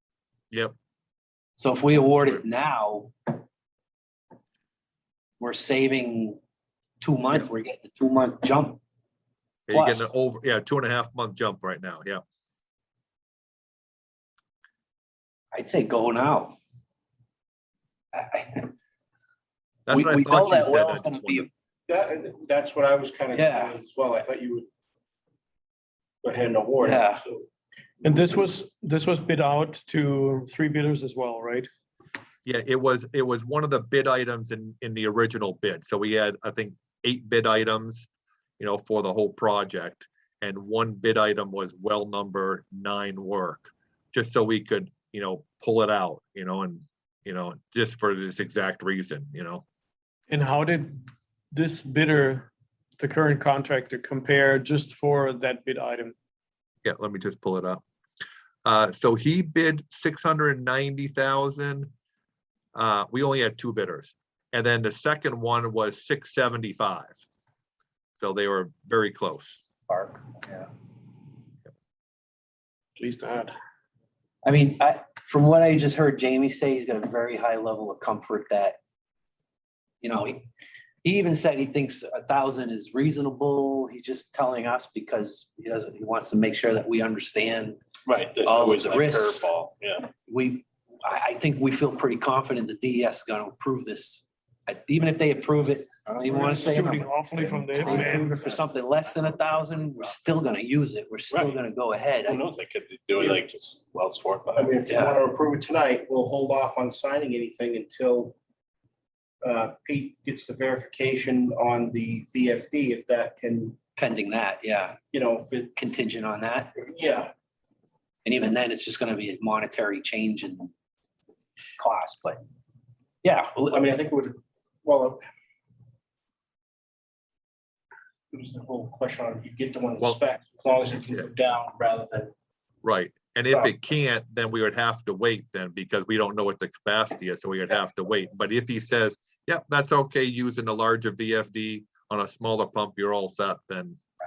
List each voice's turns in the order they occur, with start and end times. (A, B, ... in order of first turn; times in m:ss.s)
0:01.6-0:03.3 A
0:05.4-0:06.4 A
0:07.0-0:08.8 A
0:09.7-0:12.2 B
0:09.7-0:10.1 A
0:15.5-0:16.6 A
0:18.1-0:18.7 A
0:19.9-0:21.5 B
0:19.9-0:21.5 A
0:21.9-0:24.7 C
0:23.3-0:23.8 A
0:26.2-0:27.4 C
0:26.8-0:27.2 A
0:28.0-0:31.7 D
0:32.5-0:38.1 B
0:38.6-0:49.6 B
0:50.3-0:51.0 D
0:51.5-0:52.5 D
0:53.0-0:56.2 D
0:56.8-0:57.8 B
0:58.6-1:01.9 B
1:02.7-1:07.2 B
1:08.2-1:09.6 B
1:09.9-1:10.7 A
1:13.0-1:13.5 E
1:14.4-1:18.8 A
1:20.0-1:20.5 A
1:21.0-1:27.8 A
1:28.0-1:30.1 E
1:28.4-1:29.5 A
1:30.2-1:37.1 A
1:36.1-1:37.0 E
1:36.3-1:38.4 D
1:37.4-1:38.0 C
1:37.7-1:42.4 A
1:41.3-1:41.6 E
1:42.2-1:44.8 E
1:44.6-1:48.4 C
1:44.8-1:45.2 A
1:49.4-1:53.8 C
1:54.0-1:55.0 A
1:55.1-1:55.7 C
1:55.8-1:56.7 A
1:56.8-1:57.3 C
1:58.2-2:00.7 A
2:01.8-2:02.4 A
2:03.2-2:03.8 A
2:03.7-2:05.2 C
2:08.3-2:12.3 C
2:12.8-2:24.0 B